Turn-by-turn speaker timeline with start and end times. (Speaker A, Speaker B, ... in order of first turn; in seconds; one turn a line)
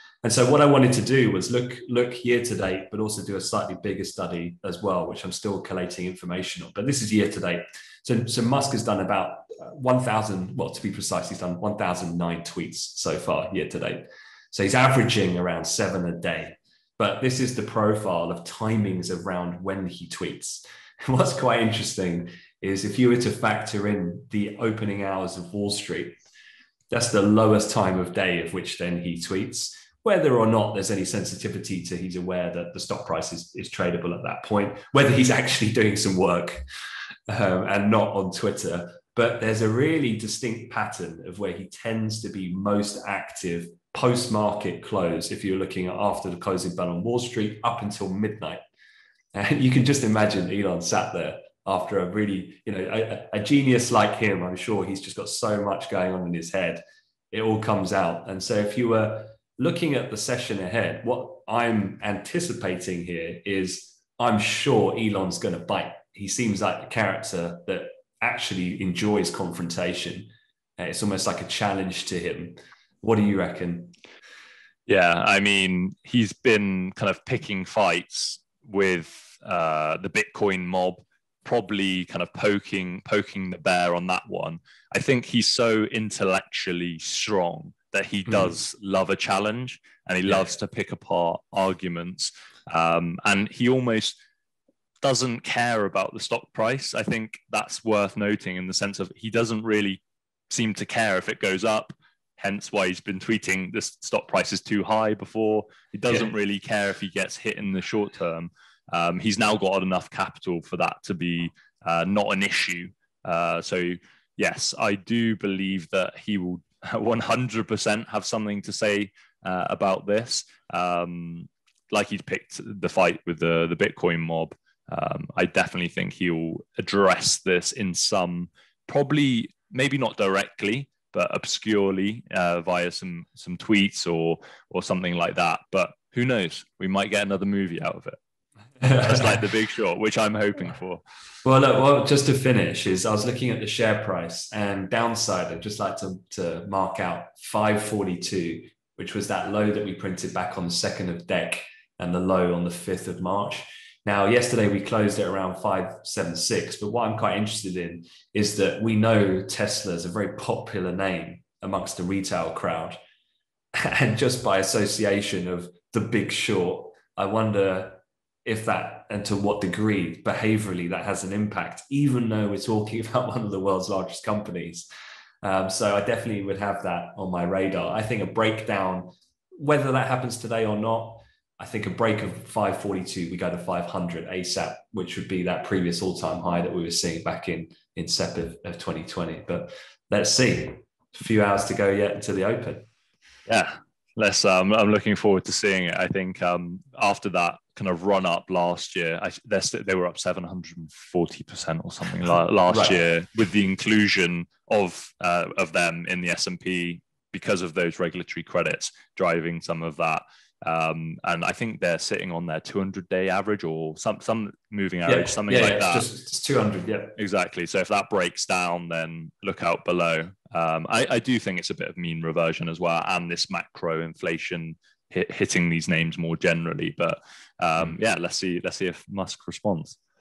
Speaker A: 0.2-26.2
Speaker A: 26.9-36.6
Speaker A: 37.3-48.6
Speaker A: 49.3-56.8
Speaker A: 57.3-73.9
Speaker B: 74.9-94.2
Speaker A: 88.2-88.5
Speaker A: 90.2-90.6
Speaker B: 95.0-138.2
Speaker A: 138.8-139.4
Speaker B: 139.0-141.0
Speaker A: 141.4-163.0
Speaker A: 163.8-174.9
Speaker A: 175.4-192.9
Speaker B: 193.5-216.1
Speaker A: 202.3-203.0
Speaker A: 215.1-217.2
Speaker B: 217.2-229.9